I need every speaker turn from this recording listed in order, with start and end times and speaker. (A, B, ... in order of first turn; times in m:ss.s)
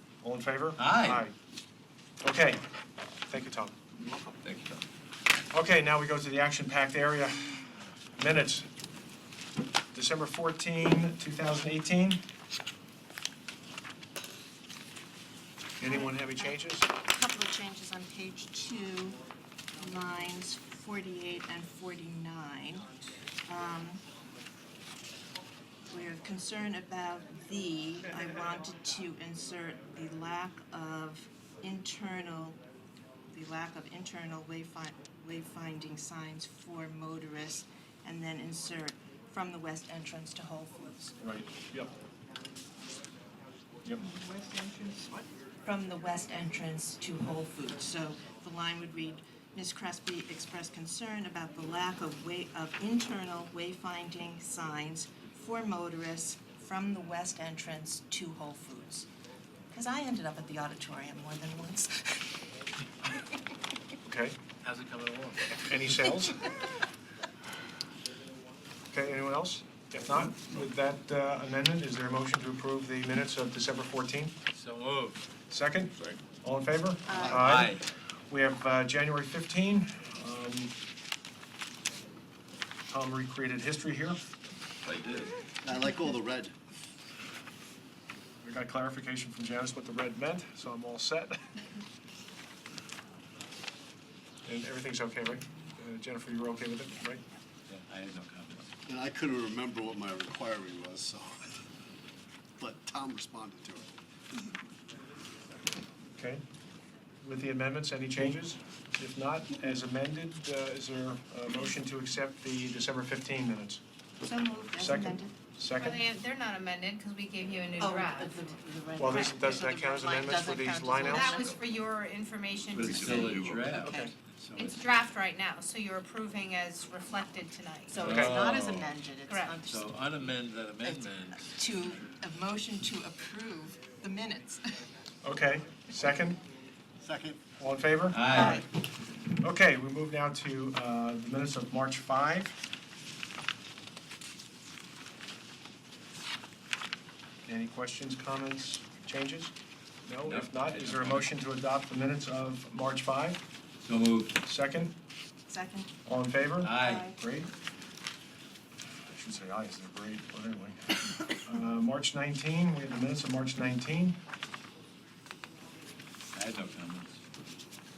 0:00.2-0:01.3 A
0:00.8-0:01.2 B
0:02.2-0:02.6 A
0:03.3-0:03.8 A
0:04.3-0:04.8 C
0:05.5-0:07.6 A
0:08.2-0:08.7 A
0:09.9-0:12.2 A
0:15.8-0:16.9 A
0:15.8-0:16.5 D
0:17.0-0:19.2 D
0:19.8-0:22.9 D
0:23.5-0:24.0 D
0:25.9-0:32.6 D
0:33.3-0:41.2 D
0:41.2-0:41.9 A
0:44.0-0:59.1 D
0:59.7-1:02.3 D
1:04.0-1:04.4 A
1:04.6-1:05.7 B
1:05.5-1:06.5 A
1:08.9-1:14.4 A
1:14.5-1:15.2 B
1:15.5-1:20.7 A
1:17.1-1:17.5 D
1:17.1-1:17.6 E
1:17.5-1:17.9 B
1:22.9-1:24.2 A
1:24.8-1:25.4 C
1:25.6-1:26.5 E
1:28.4-1:31.5 A
1:34.4-1:37.2 A
1:37.7-1:38.7 B
1:38.9-1:41.6 E
1:42.6-1:43.9 E
1:46.2-1:46.4 A
1:47.2-1:53.8 A
1:54.2-1:55.3 D
1:54.8-1:56.0 A
1:55.8-1:58.5 F
1:57.8-2:01.5 D
1:59.0-2:01.4 A
2:01.1-2:03.4 F
2:01.2-2:01.7 C
2:02.7-2:03.9 C
2:02.7-2:04.8 B
2:03.8-2:04.1 A
2:04.6-2:08.0 F
2:07.9-2:09.9 D
2:08.0-2:08.4 A
2:08.0-2:08.9 B
2:09.3-2:09.6 F
2:09.6-2:11.6 B
2:10.8-2:14.6 D
2:15.2-2:16.4 A
2:17.0-2:17.4 E
2:17.6-2:18.6 A
2:18.1-2:18.6 B
2:18.3-2:18.6 D
2:19.4-2:22.6 A
2:27.5-2:29.5 A
2:30.1-2:33.4 A
2:30.3-2:31.3 B
2:33.8-2:34.4 B
2:34.4-2:35.0 A
2:35.5-2:35.9 D
2:36.0-2:37.5 A
2:36.6-2:37.1 B
2:36.8-2:37.2 D
2:39.0-2:44.2 A
2:46.3-2:47.2 B